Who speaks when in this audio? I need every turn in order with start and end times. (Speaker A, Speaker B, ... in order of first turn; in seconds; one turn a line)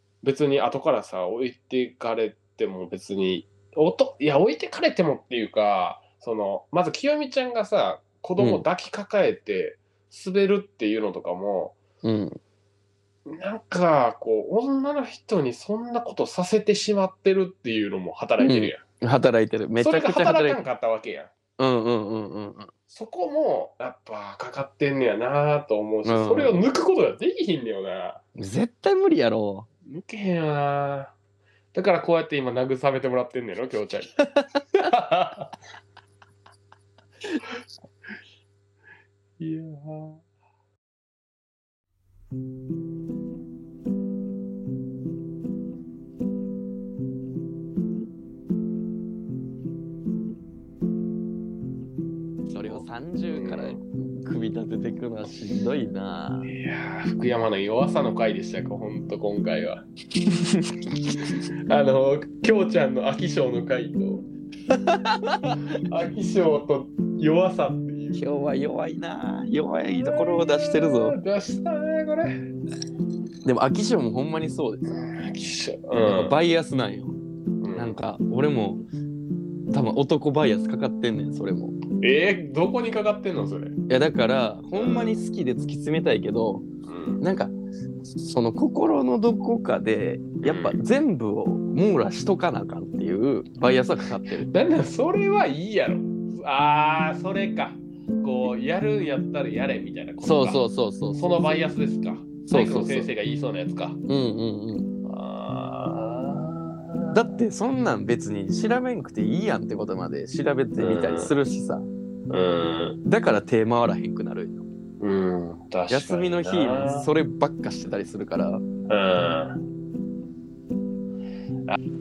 Speaker A: 0.2-11.8
Speaker B: 8.4-8.7
Speaker B: 12.0-12.4
Speaker A: 13.3-18.8
Speaker B: 18.4-20.6
Speaker A: 19.8-21.3
Speaker B: 21.6-22.7
Speaker A: 22.9-28.2
Speaker B: 26.1-26.6
Speaker B: 28.4-29.7
Speaker A: 29.9-31.1
Speaker A: 31.7-34.1
Speaker A: 34.7-35.5
Speaker A: 39.4-40.2
Speaker B: 52.5-56.5
Speaker A: 53.3-53.8
Speaker A: 56.5-59.8
Speaker A: 61.7-64.3
Speaker B: 64.7-65.6
Speaker A: 65.8-68.3
Speaker B: 68.1-71.2
Speaker A: 69.9-72.5
Speaker B: 73.5-75.0
Speaker A: 74.9-76.4
Speaker B: 76.0-77.2
Speaker A: 77.6-78.0
Speaker B: 77.8-78.8
Speaker B: 79.7-81.8
Speaker A: 82.0-83.8
Speaker B: 83.9-86.7
Speaker A: 84.8-85.2
Speaker A: 86.9-87.2
Speaker B: 87.2-87.5
Speaker B: 88.2-94.5
Speaker A: 90.4-90.8
Speaker A: 94.5-100.6
Speaker B: 100.2-101.6
Speaker A: 101.2-104.0
Speaker B: 102.5-103.1
Speaker B: 104.1-104.9
Speaker A: 105.0-107.3
Speaker B: 107.1-111.9
Speaker A: 110.8-111.3
Speaker A: 112.3-113.0
Speaker B: 113.0-114.6
Speaker A: 115.0-117.1
Speaker B: 115.9-118.7
Speaker A: 118.9-119.6